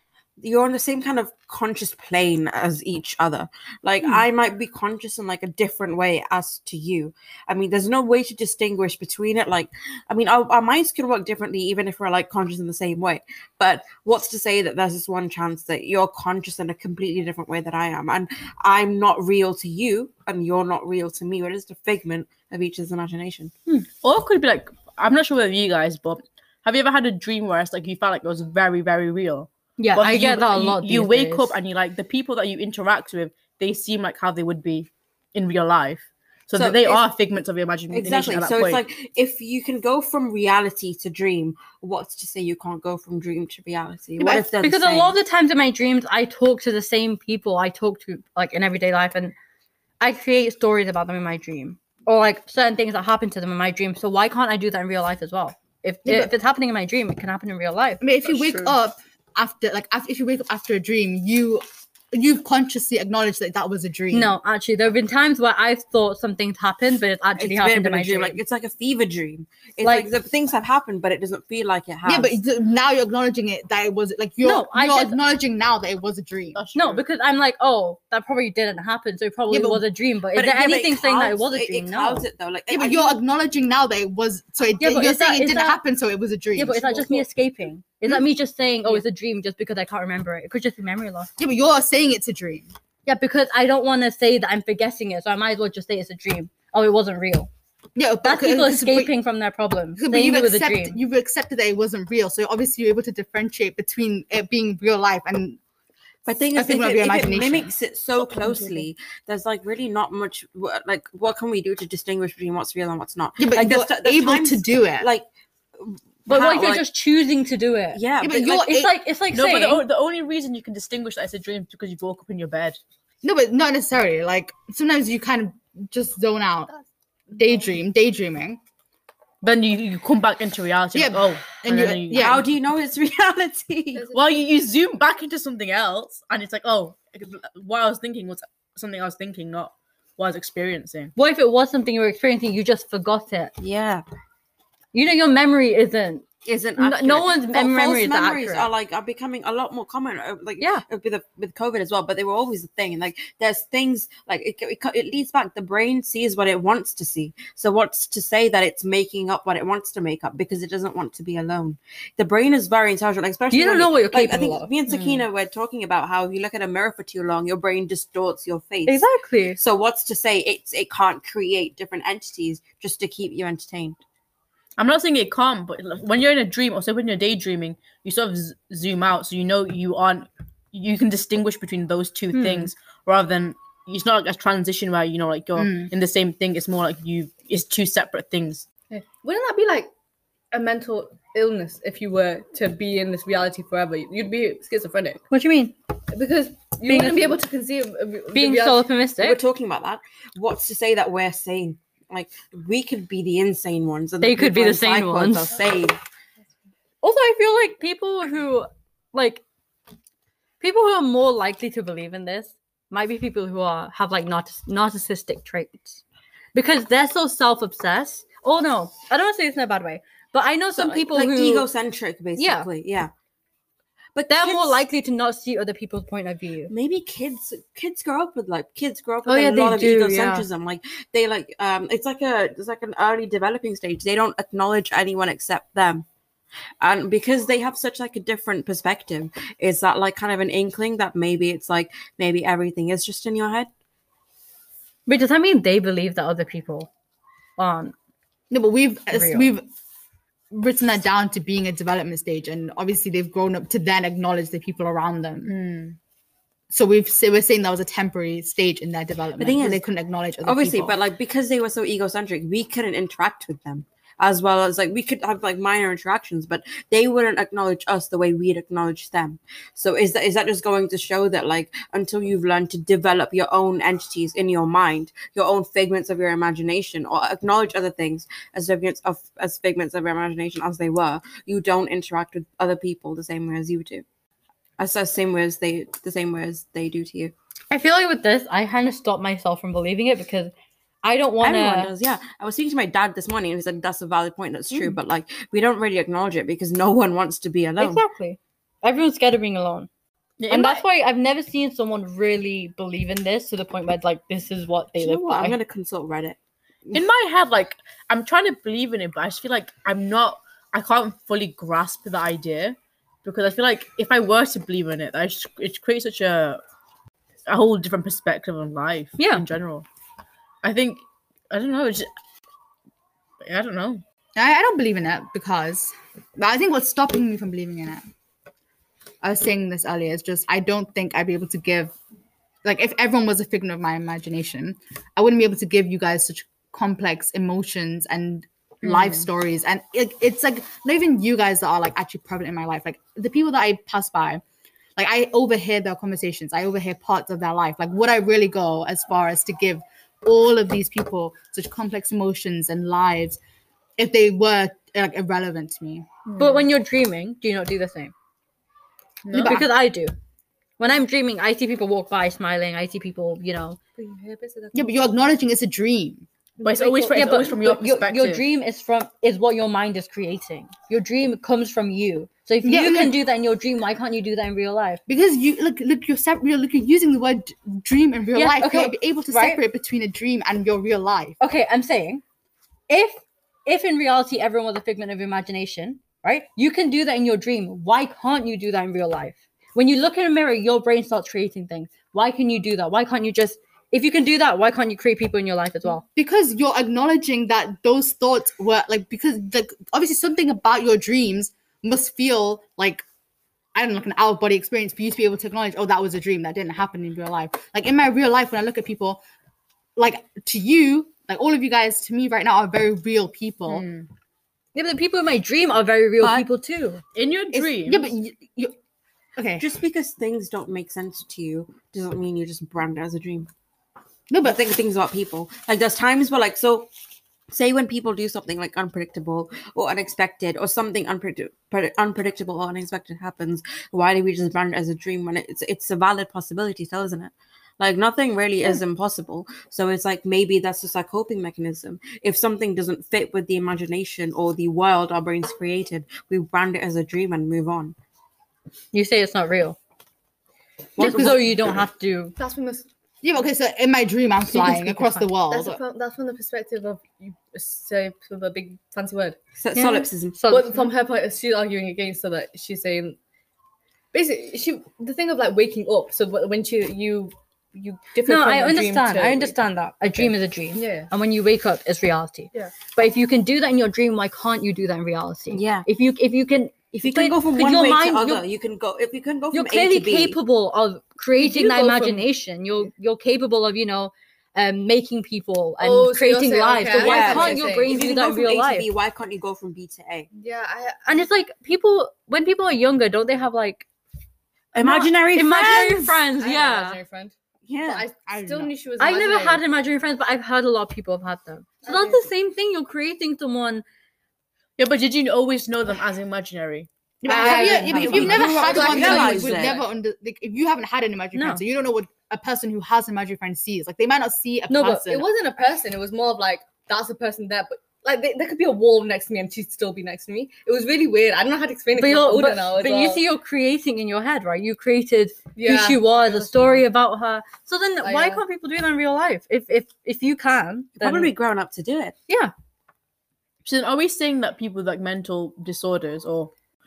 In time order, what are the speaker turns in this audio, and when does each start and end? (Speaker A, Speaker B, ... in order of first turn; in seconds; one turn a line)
Speaker A: 0.4-23.5
Speaker B: 24.0-38.8
Speaker C: 29.8-31.5
Speaker A: 36.5-37.0
Speaker A: 37.9-45.1
Speaker C: 44.6-49.3
Speaker C: 50.0-58.0
Speaker D: 56.1-56.3
Speaker D: 58.0-64.3
Speaker B: 58.3-58.7
Speaker C: 64.1-68.4
Speaker A: 67.4-72.4
Speaker C: 69.8-70.1
Speaker D: 72.1-76.6
Speaker C: 74.4-75.2
Speaker B: 76.5-77.0
Speaker C: 76.8-82.2
Speaker D: 79.5-79.8
Speaker A: 80.3-83.2
Speaker D: 82.7-87.2
Speaker C: 84.8-85.8
Speaker C: 86.5-91.3
Speaker D: 91.4-92.7
Speaker C: 93.1-97.5
Speaker D: 98.0-99.1
Speaker C: 98.2-101.0
Speaker D: 100.0-105.6
Speaker A: 106.2-115.2
Speaker D: 106.5-107.7
Speaker D: 108.3-108.8
Speaker D: 113.4-115.1
Speaker A: 115.8-116.9
Speaker C: 116.3-119.8
Speaker A: 117.9-118.7
Speaker D: 118.2-119.0
Speaker B: 119.3-122.8
Speaker D: 123.2-126.7
Speaker D: 127.3-128.6
Speaker B: 129.4-132.4
Speaker D: 130.9-132.5
Speaker A: 132.1-134.1
Speaker E: 134.0-134.3
Speaker B: 134.1-141.1
Speaker C: 141.2-143.5
Speaker A: 143.6-144.1
Speaker C: 144.9-146.2
Speaker A: 146.4-169.1
Speaker C: 146.8-148.7
Speaker C: 163.5-164.7
Speaker B: 164.9-165.2
Speaker C: 168.9-169.6
Speaker A: 169.6-174.0
Speaker B: 174.8-188.7
Speaker C: 182.3-182.7
Speaker D: 185.6-185.9
Speaker E: 188.9-189.9
Speaker E: 190.5-195.2
Speaker C: 195.3-195.8
Speaker E: 196.1-198.9
Speaker C: 196.8-197.4
Speaker C: 198.3-199.4
Speaker A: 199.2-206.0
Speaker C: 204.2-205.5
Speaker C: 207.0-209.4
Speaker C: 210.6-216.0
Speaker C: 216.5-221.7
Speaker A: 220.7-223.1
Speaker C: 222.4-222.7
Speaker A: 224.1-224.8
Speaker C: 224.3-226.7
Speaker A: 226.7-236.1
Speaker C: 229.2-230.5
Speaker A: 236.8-243.7
Speaker C: 245.1-246.9
Speaker C: 247.6-247.9
Speaker D: 248.5-249.6
Speaker C: 249.1-249.5
Speaker D: 250.5-255.5
Speaker B: 255.4-255.9
Speaker D: 256.7-261.0
Speaker A: 259.4-259.8
Speaker A: 260.4-284.1
Speaker A: 284.8-287.3
Speaker C: 287.7-291.9
Speaker A: 291.4-298.0
Speaker C: 297.8-299.9
Speaker B: 300.4-300.8
Speaker C: 300.5-305.6
Speaker A: 305.0-307.0
Speaker B: 306.9-316.6
Speaker B: 317.5-319.9
Speaker C: 319.2-319.4
Speaker B: 320.6-322.1
Speaker B: 323.4-324.0
Speaker D: 324.4-328.0
Speaker D: 329.2-331.9
Speaker D: 332.6-344.4
Speaker B: 338.8-339.3
Speaker D: 345.0-353.4
Speaker D: 354.0-356.1
Speaker B: 356.3-356.7
Speaker C: 356.4-358.1
Speaker B: 359.2-359.7
Speaker D: 359.3-359.7
Speaker C: 359.3-360.1
Speaker C: 360.8-363.8
Speaker E: 364.0-365.0
Speaker D: 364.7-366.3
Speaker E: 366.6-367.1
Speaker B: 366.6-368.4
Speaker C: 366.9-375.0
Speaker D: 372.6-373.2
Speaker D: 375.1-381.4
Speaker C: 378.3-379.6
Speaker C: 381.4-382.2
Speaker C: 382.9-396.0
Speaker D: 396.1-403.0
Speaker D: 403.7-409.2
Speaker D: 409.9-413.9
Speaker B: 413.7-414.1
Speaker C: 414.7-417.0
Speaker A: 416.2-416.5
Speaker B: 417.1-418.1
Speaker D: 417.5-418.7
Speaker D: 419.4-419.6
Speaker A: 419.6-423.5
Speaker D: 424.3-424.6
Speaker A: 424.4-426.9
Speaker A: 427.5-447.9
Speaker C: 448.9-449.8
Speaker A: 451.0-451.8
Speaker C: 451.0-452.3
Speaker E: 452.4-452.9
Speaker D: 453.2-455.8
Speaker C: 454.5-455.3
Speaker E: 455.5-459.4
Speaker A: 459.6-460.4
Speaker C: 459.7-460.9
Speaker E: 460.5-463.2
Speaker E: 464.1-469.6
Speaker C: 468.2-478.4
Speaker E: 470.2-471.1
Speaker A: 475.5-475.9
Speaker A: 476.9-480.4
Speaker C: 479.5-488.9
Speaker E: 481.4-482.3
Speaker E: 485.8-487.9
Speaker A: 486.9-490.3
Speaker E: 490.3-491.2
Speaker C: 491.1-493.9
Speaker A: 494.7-496.2
Speaker C: 494.8-497.0
Speaker E: 496.4-499.6
Speaker A: 497.7-498.1
Speaker D: 498.3-498.7
Speaker C: 499.0-503.8
Speaker E: 501.8-502.2
Speaker B: 504.8-506.9
Speaker D: 507.2-515.3
Speaker E: 507.3-509.8
Speaker C: 507.3-509.2
Speaker A: 507.7-509.8
Speaker B: 508.1-508.4
Speaker C: 511.3-511.6
Speaker C: 514.7-515.1
Speaker E: 515.0-523.2
Speaker C: 521.9-531.3
Speaker E: 525.5-526.8
Speaker E: 528.0-528.4
Speaker A: 531.0-532.1
Speaker B: 533.6-536.5